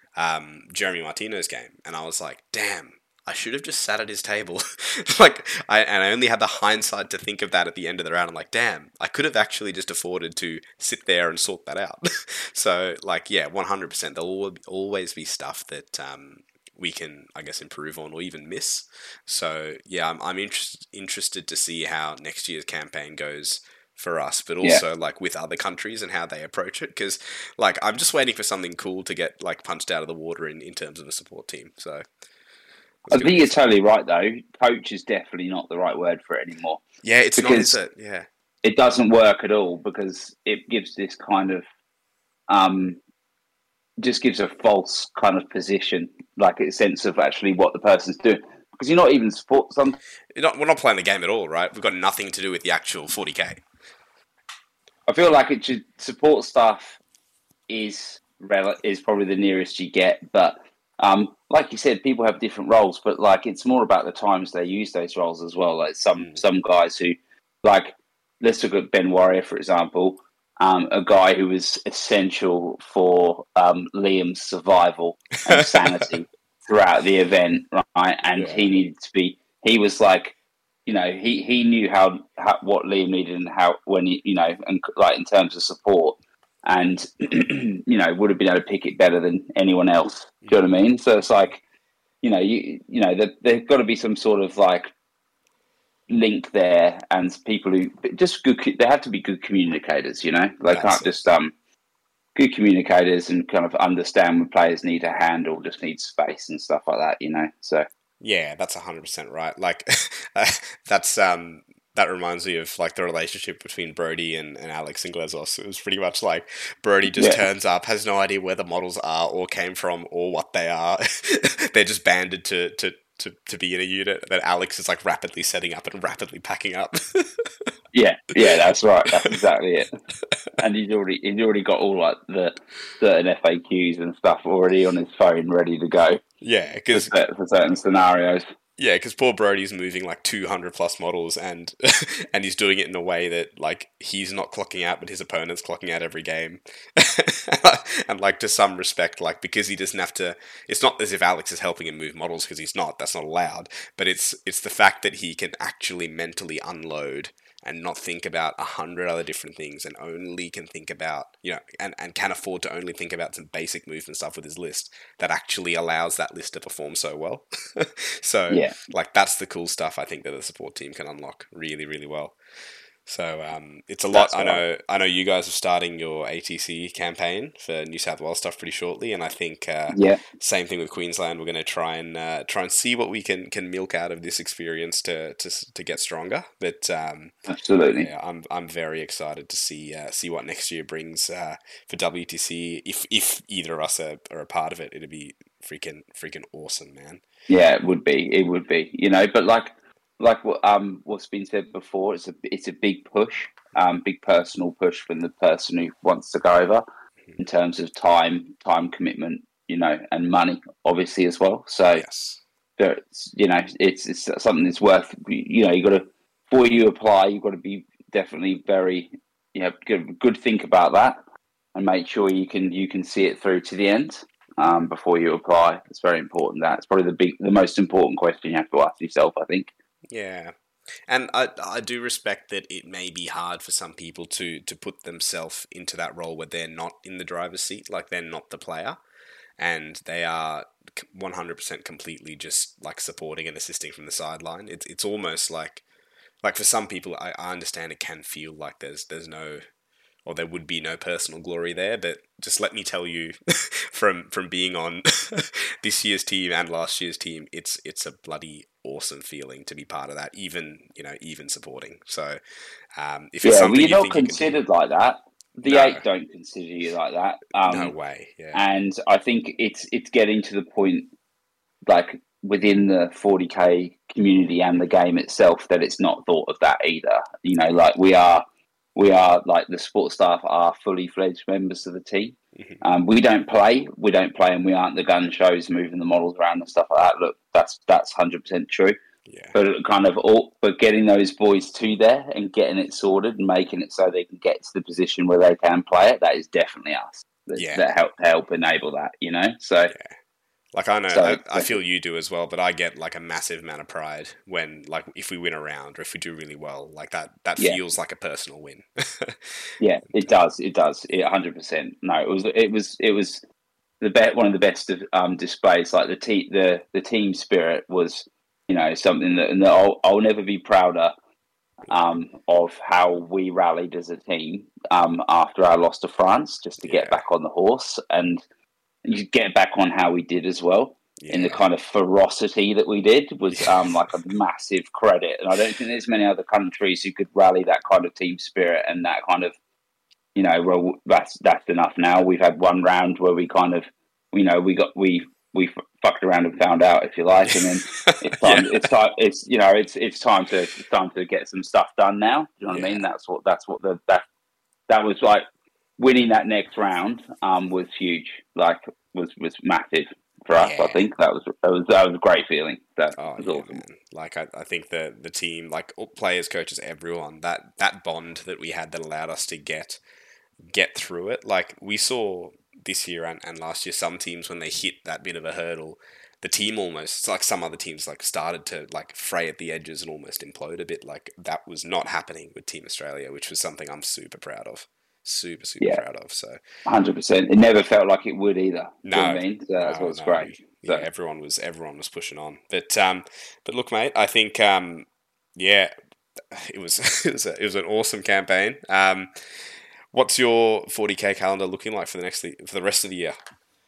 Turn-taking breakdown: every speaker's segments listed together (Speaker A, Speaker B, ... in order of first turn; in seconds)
Speaker A: 0.2-32.0, 33.0-33.6, 37.0-38.3, 50.3-53.6, 75.5-76.1, 78.3-78.7, 100.7-101.1, 108.2-127.7, 136.4-137.1, 138.8-172.3, 173.1-187.3, 188.0-197.2, 211.9-212.4, 230.1-230.5, 231.1-239.0, 239.6-245.8, 246.4-249.6, 250.2-262.4, 262.9-264.6, 265.6-266.0, 267.7-268.6, 282.6-282.8, 289.3-289.5, 297.5-297.9, 300.7-309.5, 310.1-310.4, 326.8-327.2, 331.2-331.6, 333.6-334.1, 347.4-348.8, 352.7-353.0, 360.6-361.1, 363.2-370.0, 370.6-386.6, 389.0-395.9, 396.5-403.4
Speaker B: 33.1-36.8, 37.4-37.8, 38.6-41.6, 42.5-43.0, 44.0-50.0, 55.1-57.0, 57.7-80.3, 80.8-91.6, 92.2-94.9, 96.1-101.5, 102.3-107.8, 117.1-117.4, 127.9-129.9, 130.6-136.2, 136.9-138.4, 168.5-168.8, 174.1-174.6, 179.9-180.2, 187.5-188.1, 197.5-206.8, 207.4-212.0, 212.8-221.2, 221.7-229.7, 263.4-267.9, 268.5-271.1, 271.9-288.9, 289.5-299.9, 301.1-301.7, 309.8-313.4, 314.0-321.1, 321.8-328.4, 329.0-339.5, 340.3-354.2, 354.9-355.4, 356.0-363.8, 386.9-391.0